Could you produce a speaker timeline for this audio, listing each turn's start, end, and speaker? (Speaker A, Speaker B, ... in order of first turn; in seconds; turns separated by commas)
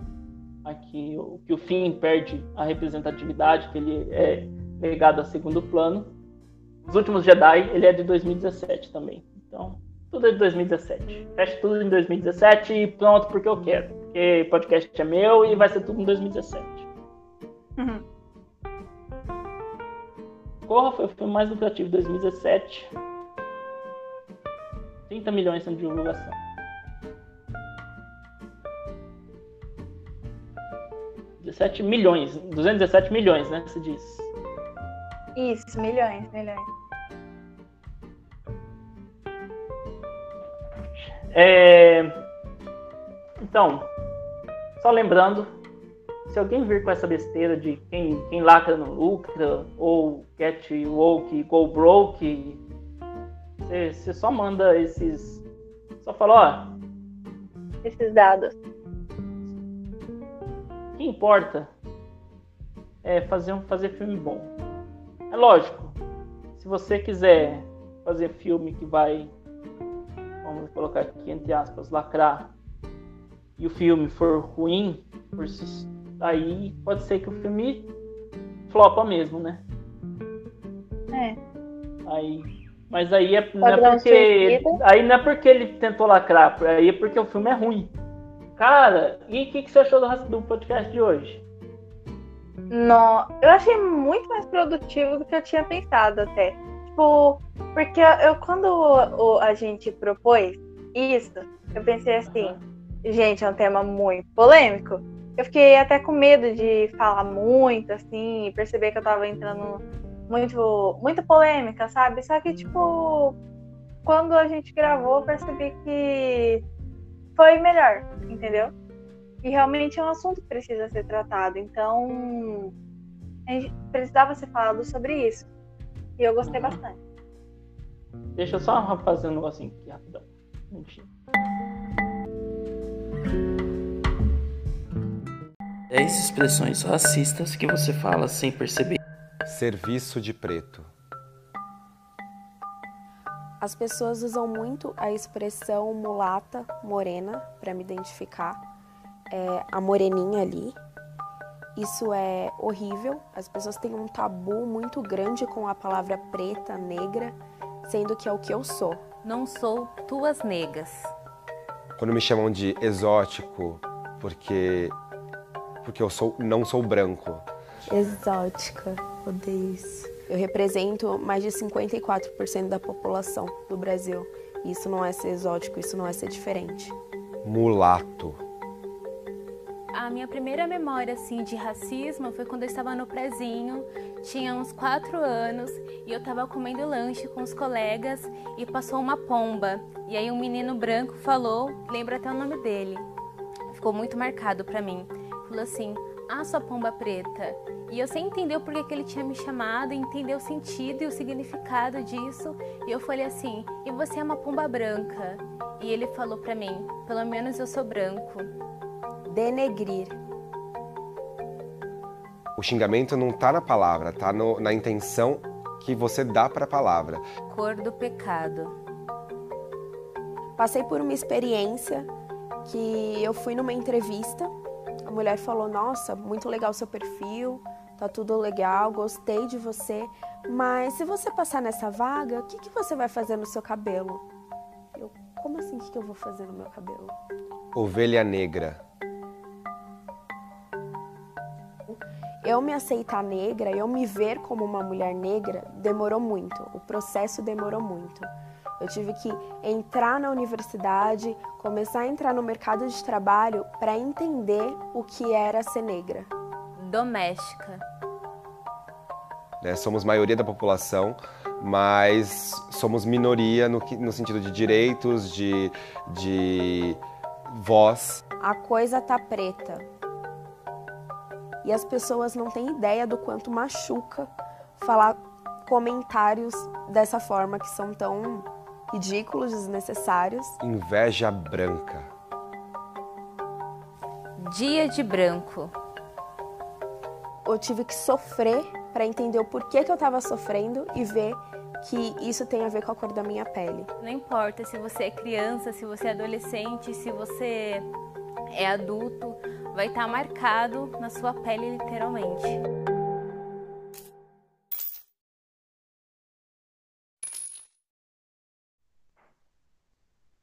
Speaker A: 0.6-6.1, Speaker A: 6.8-16.9, Speaker B: 17.8-18.0, Speaker A: 20.7-22.9, Speaker A: 25.1-26.4, Speaker A: 31.4-34.3, Speaker B: 35.4-36.7, Speaker A: 41.0-42.1, Speaker A: 43.4-43.9, Speaker A: 44.8-45.5, Speaker A: 46.3-52.6, Speaker A: 53.6-55.4, Speaker A: 56.0-56.8, Speaker B: 57.8-58.5, Speaker A: 61.0-61.7, Speaker A: 63.0-64.5, Speaker A: 65.3-66.0, Speaker A: 66.5-69.3, Speaker A: 70.4-72.5, Speaker A: 73.6-77.9, Speaker A: 78.7-79.6, Speaker B: 81.1-81.4, Speaker A: 82.0-87.9, Speaker B: 83.6-84.8, Speaker A: 88.5-91.4, Speaker B: 92.7-113.3, Speaker A: 102.3-102.6, Speaker B: 114.0-116.6, Speaker B: 117.3-118.7, Speaker B: 119.4-122.7, Speaker B: 123.5-125.5, Speaker B: 126.2-127.0, Speaker A: 126.4-126.8, Speaker A: 128.3-131.1, Speaker A: 135.9-139.0, Speaker C: 139.4-140.9, Speaker D: 143.6-148.6, Speaker D: 149.3-150.8, Speaker D: 151.8-159.0, Speaker E: 159.2-161.1, Speaker C: 162.0-164.9, Speaker C: 165.8-167.4, Speaker D: 167.9-176.9, Speaker C: 177.4-178.4, Speaker E: 179.9-193.1, Speaker E: 193.7-208.5, Speaker D: 209.3-210.2, Speaker C: 212.6-217.2, Speaker E: 217.5-218.7, Speaker D: 220.6-222.1, Speaker D: 222.6-224.5, Speaker D: 225.1-234.2, Speaker D: 234.9-237.1, Speaker C: 237.7-238.8, Speaker D: 241.9-256.3, Speaker E: 256.8-257.8, Speaker C: 259.6-268.2, Speaker D: 268.4-269.9, Speaker D: 271.6-280.6, Speaker C: 280.6-282.1, Speaker E: 284.4-285.7, Speaker D: 287.4-293.9, Speaker E: 294.0-297.9, Speaker E: 298.5-302.6